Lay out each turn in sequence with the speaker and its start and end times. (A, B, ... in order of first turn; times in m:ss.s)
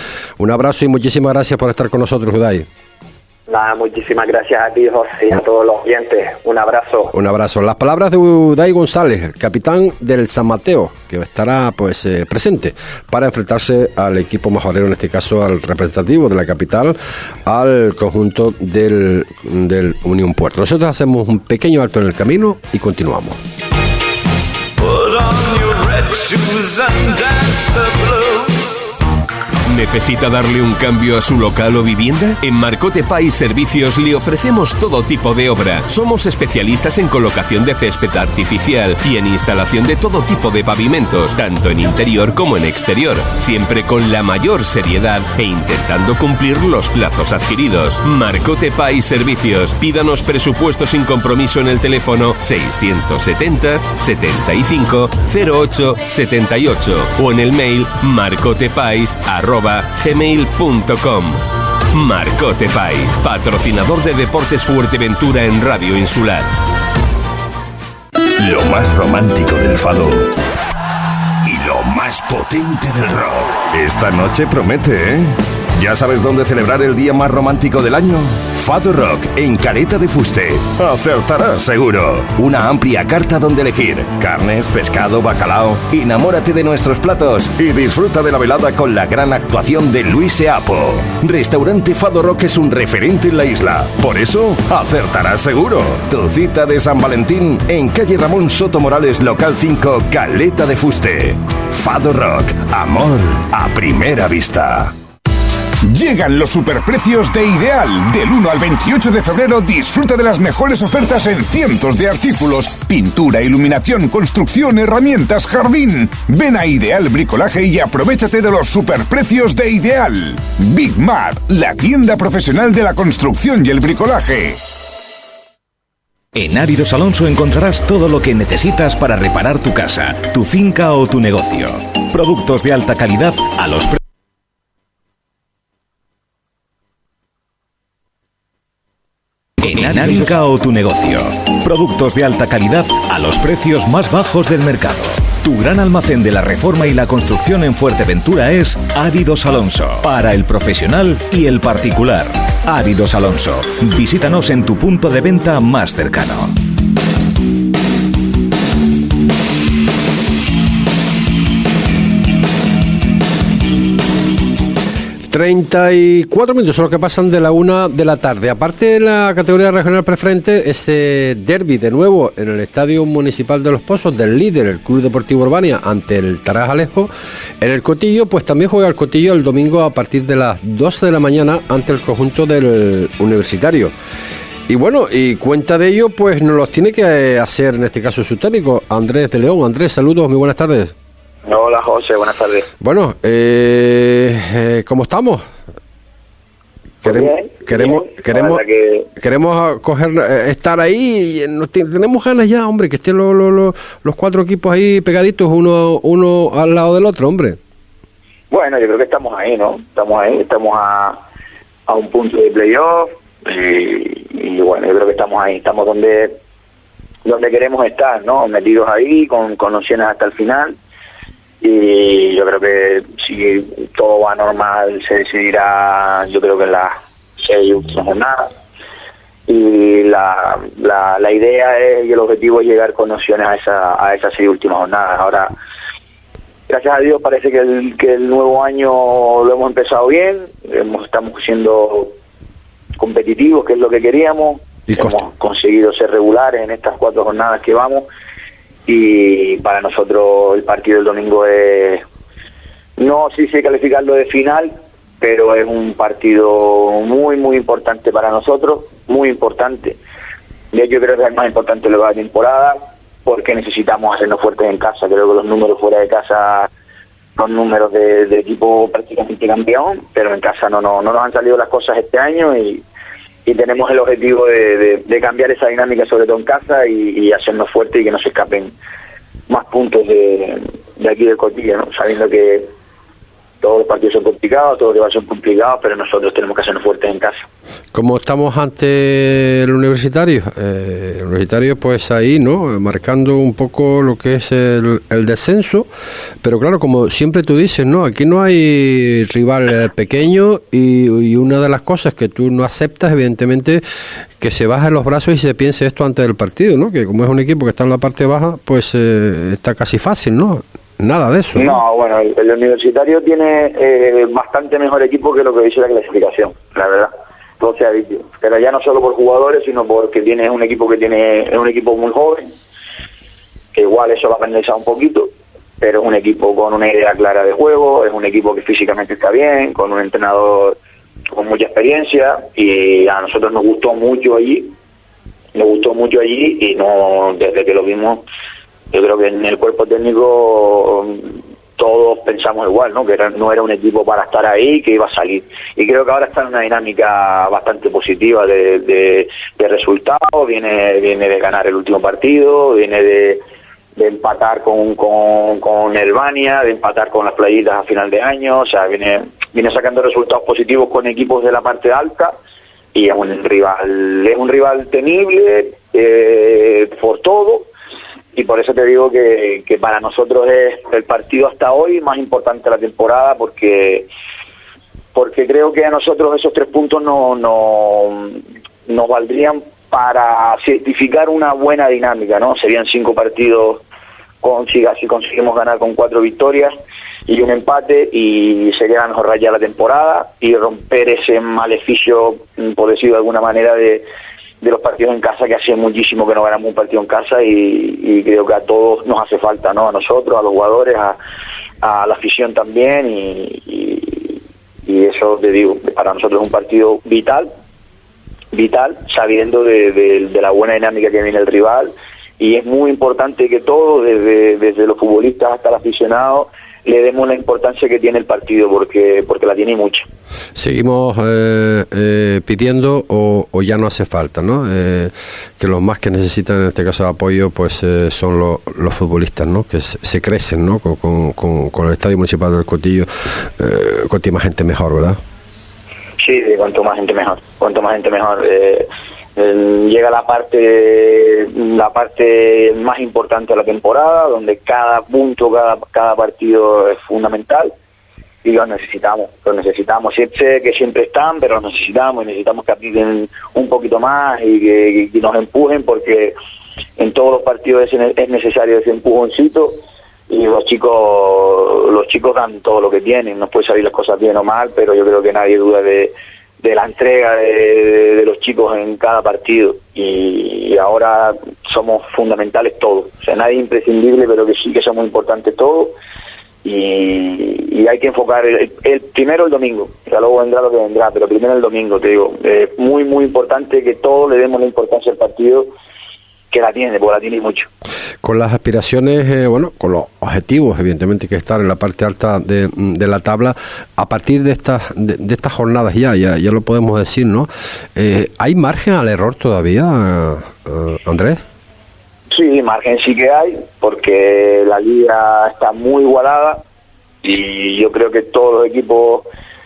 0:00.4-0:02.7 A
0:03.5-0:07.2 B
0:07.1-0:23.4 A
0:25.2-0:27.0 B
0:29.7-1:06.5 C
1:08.4-1:10.3 D
1:11.4-1:44.9 D
1:45.9-2:04.6 E
2:06.4-2:14.0 F
2:19.6-2:36.5 F
2:45.3-3:03.9 A
3:04.7-3:10.9 A
3:11.5-3:12.7 G
3:12.8-3:15.4 A
3:17.0-3:18.6 A
3:17.0-3:19.1 G
3:19.2-3:27.6 A
3:28.5-3:31.2 G
3:31.9-3:36.4 G
3:37.2-3:40.8 G
3:41.6-3:48.5 G
3:49.5-3:55.6 G
3:56.7-4:02.2 G
4:03.0-4:08.1 G
4:04.9-4:05.2 A
4:08.9-4:12.0 G
4:13.0-4:20.0 G
4:20.7-4:26.7 G
4:27.4-4:32.8 G
4:33.5-4:38.7 G
4:39.5-4:42.7 G
4:43.6-4:47.5 G
4:47.9-4:55.9 A
4:56.4-5:03.8 A
5:04.4-5:11.8 A
5:11.6-5:22.5 G
5:23.7-5:30.8 G
5:31.3-5:34.7 G
5:35.5-5:38.2 G
5:38.9-5:53.4 G
5:54.0-6:02.4 G
6:02.9-6:07.7 G
6:08.3-6:14.1 G
6:15.2-6:23.8 G
6:24.4-6:26.7 G
6:27.3-6:34.0 G
6:34.6-6:41.2 G
6:41.8-6:47.5 G
6:48.5-7:00.1 G
7:00.6-7:15.2 A
7:16.2-7:27.7 G
7:28.4-7:36.4 G
7:37.0-7:56.0 G
7:56.6-8:05.7 G
8:06.5-8:07.7 G
8:08.2-8:21.4 A
8:22.3-8:26.6 G
8:27.2-8:29.3 G